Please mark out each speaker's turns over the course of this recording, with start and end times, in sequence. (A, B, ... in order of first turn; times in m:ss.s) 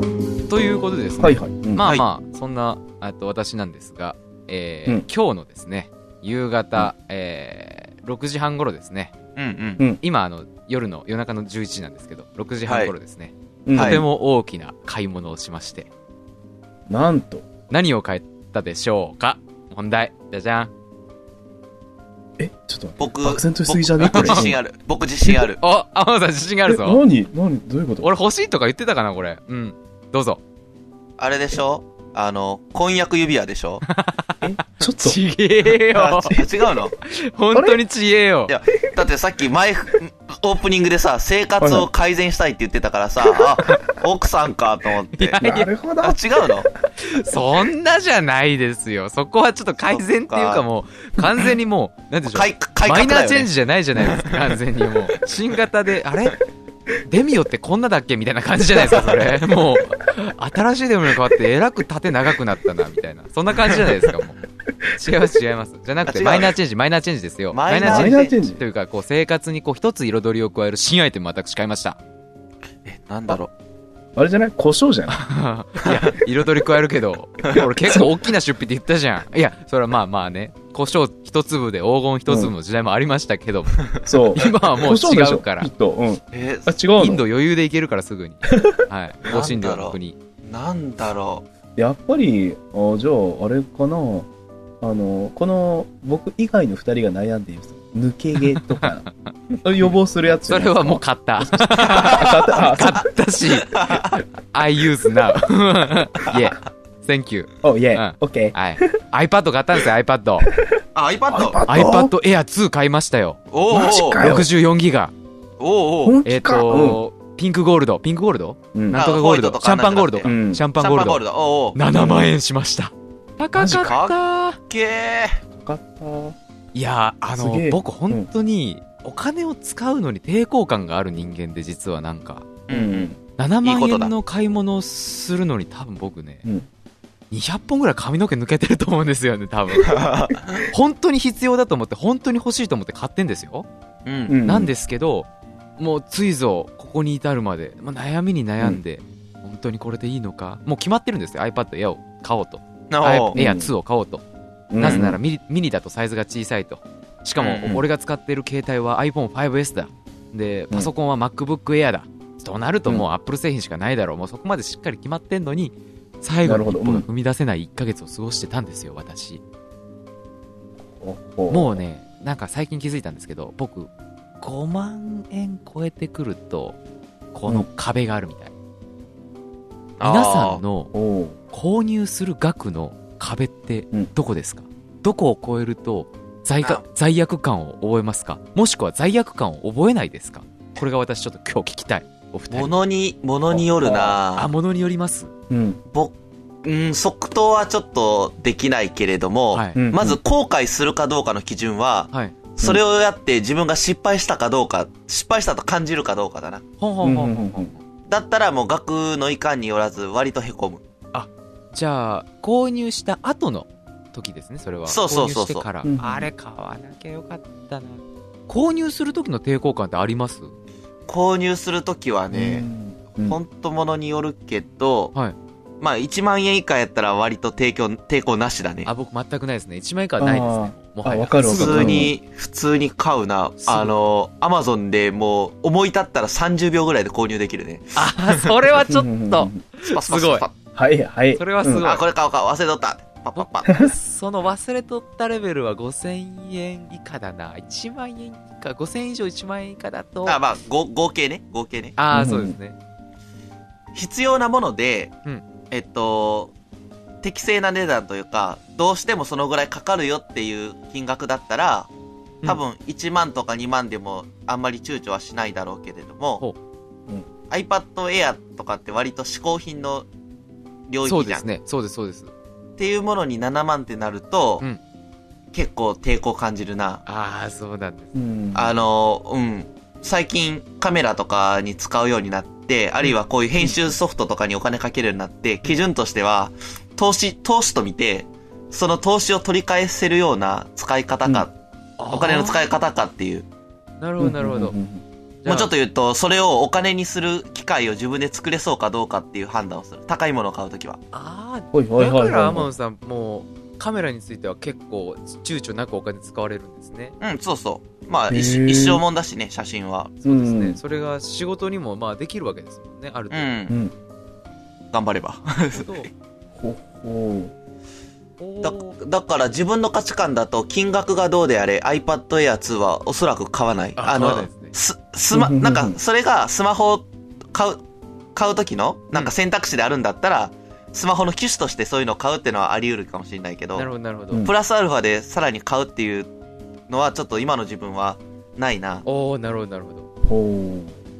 0:00.5-0:09.1 A
0:01.2-0:01.9 B
0:01.8-0:02.0 C
0:09.4-0:09.8 C
0:10.0-0:15.9 A
0:12.7-0:12.9 C
0:13.6-0:14.0 B
0:13.7-0:14.0 C
0:16.9-0:17.4 B
0:17.7-0:20.7 A
0:22.4-0:24.6 B
0:23.0-0:25.6 C
0:24.0-0:24.5 A
0:25.6-0:27.0 A
0:26.6-0:28.1 B
0:28.0-0:30.4 A
0:31.2-0:33.8 C
0:33.8-0:36.4 A
0:34.4-0:35.2 B
0:35.9-0:36.9 C
0:37.0-0:38.5 A
0:37.5-0:37.8 B
0:38.5-0:45.5 C
0:41.6-0:41.9 B
0:45.1-0:45.7 A
0:45.4-0:46.6 B
0:46.0-0:46.7 C
0:47.0-0:56.4 A
0:49.8-0:50.6 C
0:52.3-0:54.5 C
0:57.0-1:04.4 A
1:04.9-1:12.0 A
1:06.0-1:06.5 C
1:07.5-1:08.3 C
1:07.8-1:08.6 B
1:12.8-1:13.5 C
1:14.2-1:15.2 B
1:15.1-1:25.7 A
1:22.3-1:22.5 B
1:24.0-1:27.2 B
1:26.3-1:26.7 C
1:27.0-1:30.2 A
1:29.2-1:31.4 C
1:31.8-1:34.3 B
1:34.8-1:43.1 B
1:38.5-1:39.1 A
1:40.4-1:44.0 A
1:43.7-1:44.2 C
1:44.5-1:50.5 A
1:47.6-1:48.9 B
1:50.5-1:52.1 B
1:50.9-1:51.6 C
1:51.7-1:53.4 A
1:53.5-1:54.2 C
1:53.7-1:54.5 B
1:54.2-1:55.1 A
1:55.6-1:56.2 C
1:56.0-1:57.0 B
1:56.2-2:01.2 A
1:58.7-1:59.0 B
1:58.9-2:01.8 C
2:00.2-2:00.6 B
2:01.7-2:04.6 A
2:01.9-2:02.3 B
2:03.5-2:03.9 B
2:03.7-2:04.2 C
2:04.7-2:05.4 C
2:05.5-2:06.4 B
2:06.7-2:12.5 A
2:07.3-2:08.3 B
2:12.7-2:13.0 C
2:12.7-2:13.2 B
2:13.4-2:16.4 A
2:13.6-2:14.1 C
2:17.3-2:23.7 A
2:19.8-2:20.6 C
2:24.0-2:24.4 C
2:24.3-2:24.7 B
2:24.4-2:34.2 A
2:32.9-2:33.3 C
2:33.3-2:33.7 B
2:34.7-2:35.2 B
2:34.8-2:49.4 A
2:34.8-2:35.1 C
2:37.4-2:37.8 C
2:46.4-2:47.0 B
2:50.9-2:51.8 B
2:51.5-2:56.8 A
2:57.3-2:58.5 A
3:00.0-3:00.6 C
3:00.0-3:00.9 A
3:00.9-3:01.4 B
3:01.5-3:12.8 A
3:12.5-3:14.5 C
3:13.5-3:14.2 B
3:14.3-3:15.3 A
3:15.5-3:15.8 B
3:16.6-3:26.6 C
3:19.5-3:19.8 A
3:19.7-3:20.2 B
3:26.8-3:27.8 A
3:27.0-3:27.7 B
3:28.1-3:30.8 C
3:31.1-3:40.5 A
3:34.8-3:35.6 C
3:35.8-3:36.3 B
3:41.1-3:42.6 C
3:42.3-3:43.4 B
3:43.2-3:45.1 C
3:45.8-3:48.9 C
3:48.8-3:52.1 A
3:50.2-3:52.1 B
3:51.4-3:58.5 C
3:53.6-3:53.9 A
3:57.9-4:00.4 A
3:58.8-3:59.6 B
3:59.8-4:00.5 C
4:00.7-4:01.8 B
4:01.4-4:02.0 A
4:01.8-4:03.9 C
4:03.4-4:10.4 A
4:03.6-4:03.9 B
4:10.2-4:12.0 C
4:12.0-4:12.8 A
4:12.1-4:12.6 B
4:13.9-4:15.1 C
4:15.7-4:16.5 C
4:17.2-4:21.9 C
4:22.4-4:26.4 C
4:27.5-4:30.1 C
4:30.9-4:31.4 C
4:31.0-4:32.3 A
4:32.8-4:34.6 C
4:35.5-4:37.0 C
4:37.0-4:38.1 A
4:38.1-4:38.7 B
4:38.5-4:51.5 C
4:52.0-4:52.6 A
4:52.1-4:53.4 C
4:54.0-4:54.7 A
4:54.2-4:55.0 B
4:55.4-4:55.7 A
4:55.4-5:01.0 C
5:01.1-5:07.2 A
5:01.7-5:02.7 B
5:07.2-5:10.1 C
5:08.3-5:09.0 B
5:10.2-5:13.5 A
5:10.2-5:10.8 B
5:13.3-5:13.7 C
5:13.7-5:13.9 B
5:14.9-5:15.9 C
5:15.7-5:16.1 A
5:16.5-5:17.5 B
5:18.4-5:19.0 A
5:18.6-5:27.8 C
5:24.0-5:24.7 A
5:25.3-5:26.0 B
5:28.4-5:33.9 C
5:33.7-5:34.4 A
5:34.4-5:36.3 C
5:36.9-5:39.0 C
5:39.0-5:40.1 A
5:40.2-5:41.0 B